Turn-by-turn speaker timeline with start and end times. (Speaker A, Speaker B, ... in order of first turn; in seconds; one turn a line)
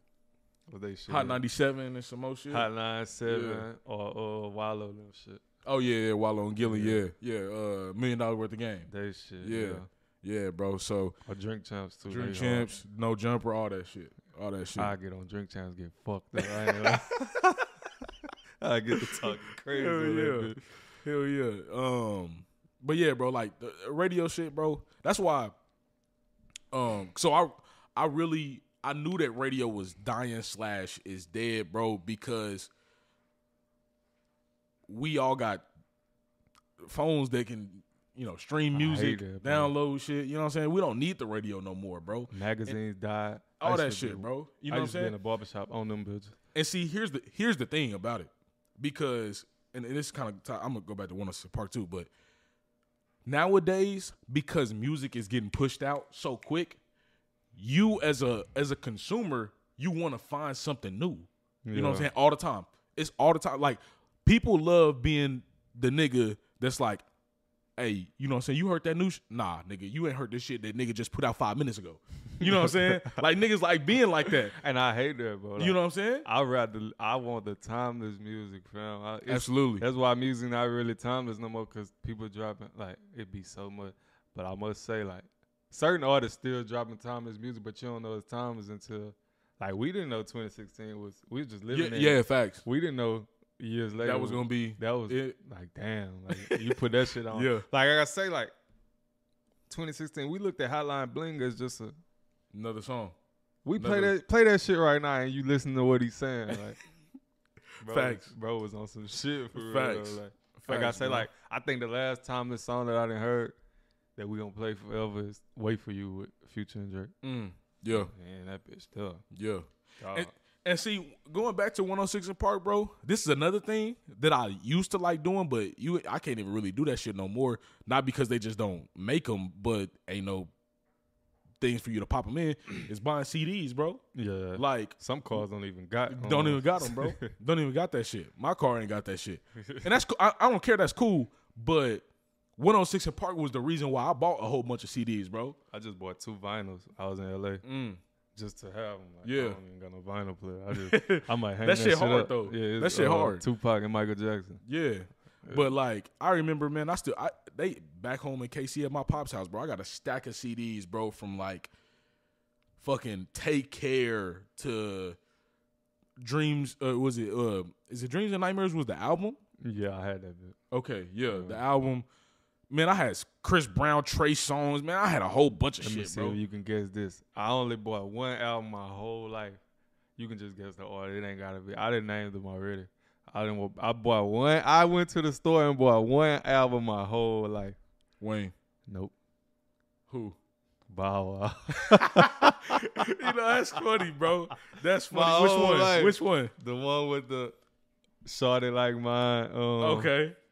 Speaker A: 0.7-1.4
Speaker B: 1.1-2.7
Speaker A: 2.5-5.4
Speaker B: 3.3-3.7
Speaker B: 5.7-8.9
Speaker A: 6.6-7.0
Speaker A: 8.9-9.9
Speaker B: 9.4-11.2
Speaker A: 11.3-12.7
Speaker B: 12.1-14.9
Speaker A: 14.8-17.6
Speaker B: 16.4-17.1
Speaker A: 18.6-20.7
Speaker B: 18.9-25.5
Speaker B: 26.7-32.7
Speaker B: 34.9-35.6
Speaker B: 36.8-42.8
Speaker A: 38.7-39.7
Speaker A: 42.3-46.4
Speaker B: 43.6-45.1
Speaker B: 46.5-52.1
Speaker B: 53.3-56.8
Speaker B: 57.5-67.0
Speaker A: 61.6-62.1
Speaker B: 67.8-74.5
Speaker A: 72.4-73.2
Speaker A: 74.3-98.5
Speaker B: 75.6-76.3
Speaker B: 79.3-79.8
Speaker B: 91.7-92.6
Speaker B: 94.0-95.4
Speaker B: 96.3-97.7
Speaker A: 99.7-102.0
Speaker B: 102.5-103.2
Speaker A: 103.7-106.8
Speaker B: 103.8-104.1
Speaker A: 107.8-113.6
Speaker B: 107.8-108.3
Speaker B: 109.5-111.3
Speaker A: 114.2-117.1
Speaker B: 117.2-118.1
Speaker A: 117.9-119.2
Speaker B: 119.3-130.5
Speaker A: 120.0-120.3
Speaker B: 131.6-134.0
Speaker A: 134.2-137.3
Speaker B: 134.6-134.9
Speaker B: 136.1-142.0
Speaker A: 139.6-139.9
Speaker B: 142.6-145.6
Speaker A: 145.7-147.6
Speaker B: 147.6-148.0
Speaker A: 148.3-154.6
Speaker B: 149.2-149.6
Speaker B: 150.7-153.4
Speaker B: 154.7-161.7
Speaker A: 155.4-155.7
Speaker B: 162.8-165.2
Speaker B: 166.2-169.4
Speaker A: 169.6-170.6
Speaker B: 170.7-172.1
Speaker A: 171.3-171.6
Speaker B: 172.7-176.4
Speaker A: 175.8-179.6
Speaker A: 180.2-187.8
Speaker B: 188.2-188.5
Speaker A: 188.9-189.1
Speaker B: 190.1-190.4
Speaker A: 190.9-193.3
Speaker B: 191.8-196.5
Speaker A: 195.1-197.6
Speaker A: 198.2-200.1
Speaker B: 199.8-200.4